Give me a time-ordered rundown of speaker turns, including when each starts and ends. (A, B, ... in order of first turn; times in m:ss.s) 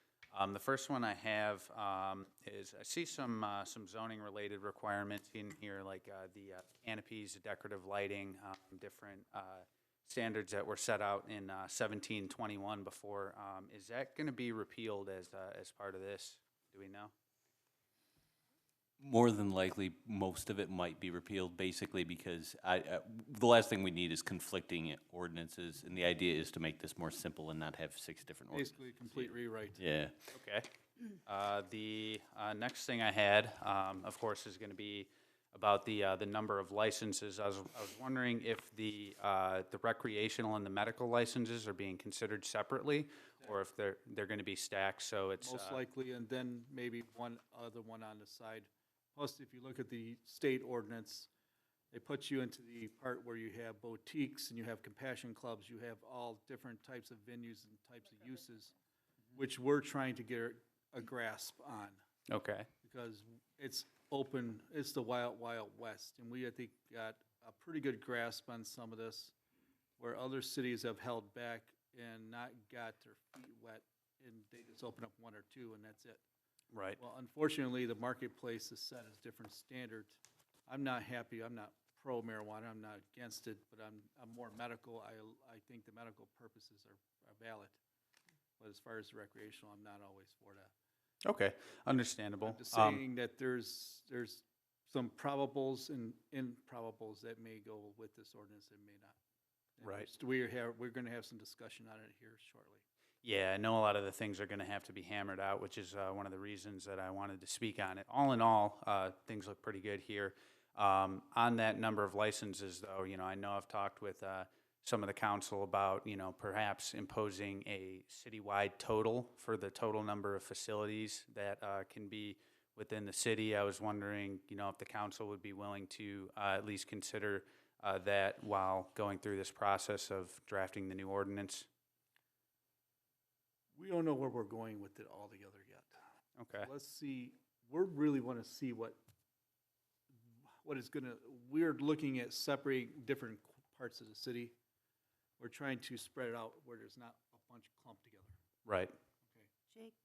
0:00.3-0:17.1 A
0:19.0-0:30.2 B
0:28.5-0:29.8 C
0:30.3-0:30.7 A
0:31.2-0:45.8 A
0:45.4-0:51.3 C
0:51.9-0:58.7 C
0:59.3-1:02.0 C
1:02.3-1:02.7 A
1:02.8-1:09.3 C
1:10.0-1:16.2 C
1:16.7-1:17.0 A
1:17.0-1:27.8 C
1:28.6-1:30.7 C
1:31.2-1:33.0 A
1:32.4-1:39.2 C
1:39.8-1:42.8 C
1:39.8-1:40.1 A
1:43.2-2:11.7 A
2:13.7-2:16.0 C
2:16.4-2:16.7 A
2:16.6-2:19.0 C
2:20.6-2:24.6 C
2:25.4-2:28.3 C
2:28.6-2:29.0 A